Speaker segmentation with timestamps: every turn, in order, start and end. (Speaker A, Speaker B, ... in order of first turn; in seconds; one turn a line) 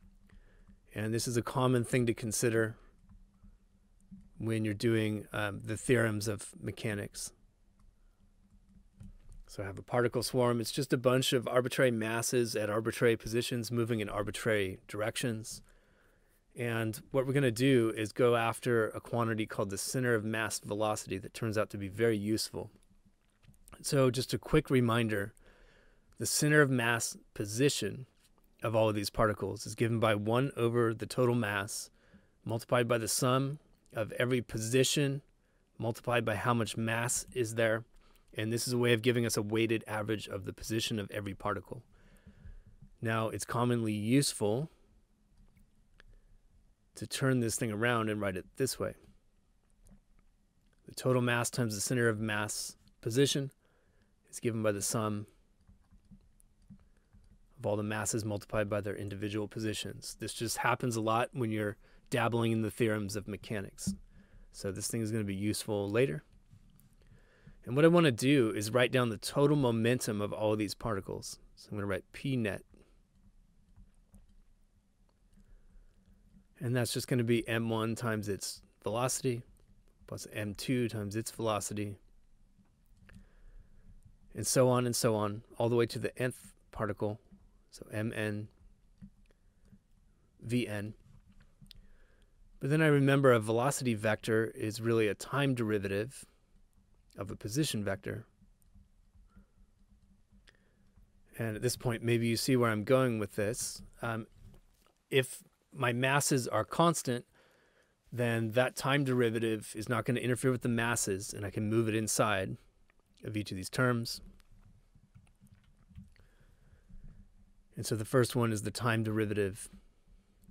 Speaker A: 0.9-2.8
Speaker A: 4.4-7.3
Speaker A: 9.5-15.6
Speaker A: 16.5-22.7
Speaker A: 23.8-25.3
Speaker A: 26.2-28.1
Speaker A: 28.6-31.9
Speaker A: 32.4-35.2
Speaker A: 35.8-41.9
Speaker A: 43.0-44.7
Speaker A: 46.9-49.0
Speaker A: 50.9-53.5
Speaker A: 54.3-55.3
Speaker A: 57.6-64.0
Speaker A: 64.5-66.2
Speaker A: 67.6-72.6
Speaker A: 76.6-79.4
Speaker A: 80.1-82.0
Speaker A: 84.3-87.2
Speaker A: 87.7-88.5
Speaker A: 90.4-91.0
Speaker A: 92.6-96.3
Speaker A: 97.2-98.3
Speaker A: 101.4-104.3
Speaker A: 105.1-107.3
Speaker A: 108.1-112.5
Speaker A: 113.2-114.2
Speaker A: 117.7-119.7